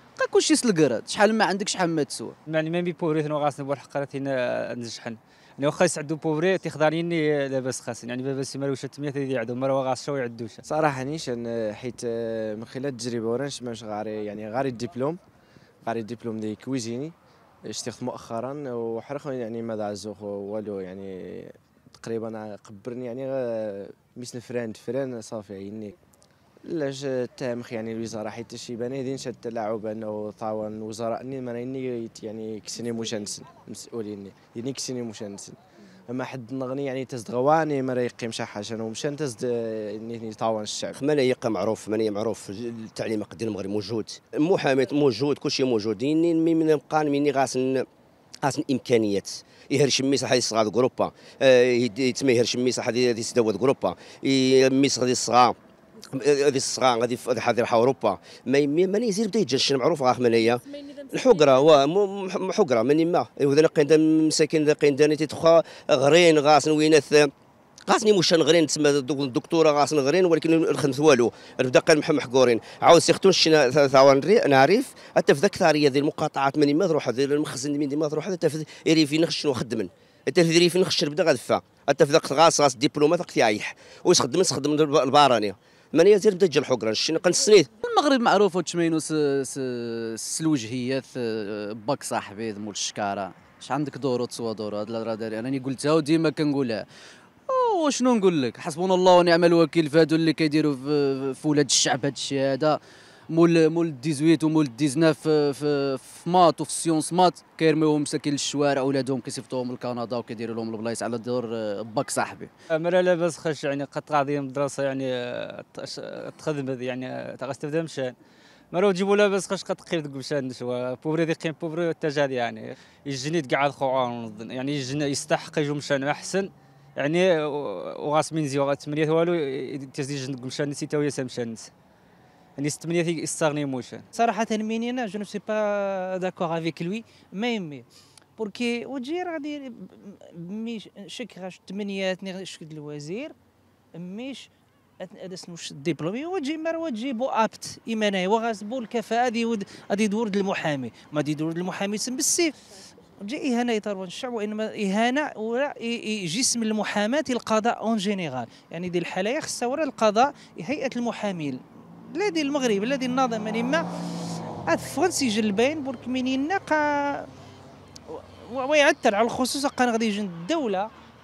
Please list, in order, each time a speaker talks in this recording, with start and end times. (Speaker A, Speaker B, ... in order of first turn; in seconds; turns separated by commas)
Speaker A: 0.2-2.4, Speaker B: 2.5-10.6, Speaker C: 10.7-15.2, Speaker C: 15.8-17.1, Speaker C: 17.7-25.9, Speaker C: 26.7-35.6, Speaker C: 36.1-41.0, Speaker D: 41.0-47.8, Speaker D: 48.4-55.5, Speaker D: 56.1-67.3, Speaker D: 67.9-87.7, Speaker A: 87.8-96.8, Speaker A: 97.5-102.8, Speaker A: 103.3-112.5, Speaker B: 112.7-118.2, Speaker B: 118.7-131.7, Speaker B: 132.6-134.1, Speaker E: 134.2-137.9, Speaker E: 138.4-143.3, Speaker E: 143.9-152.6, Speaker E: 153.2-163.9, Speaker E: 164.7-167.3, Speaker E: 168.1-170.9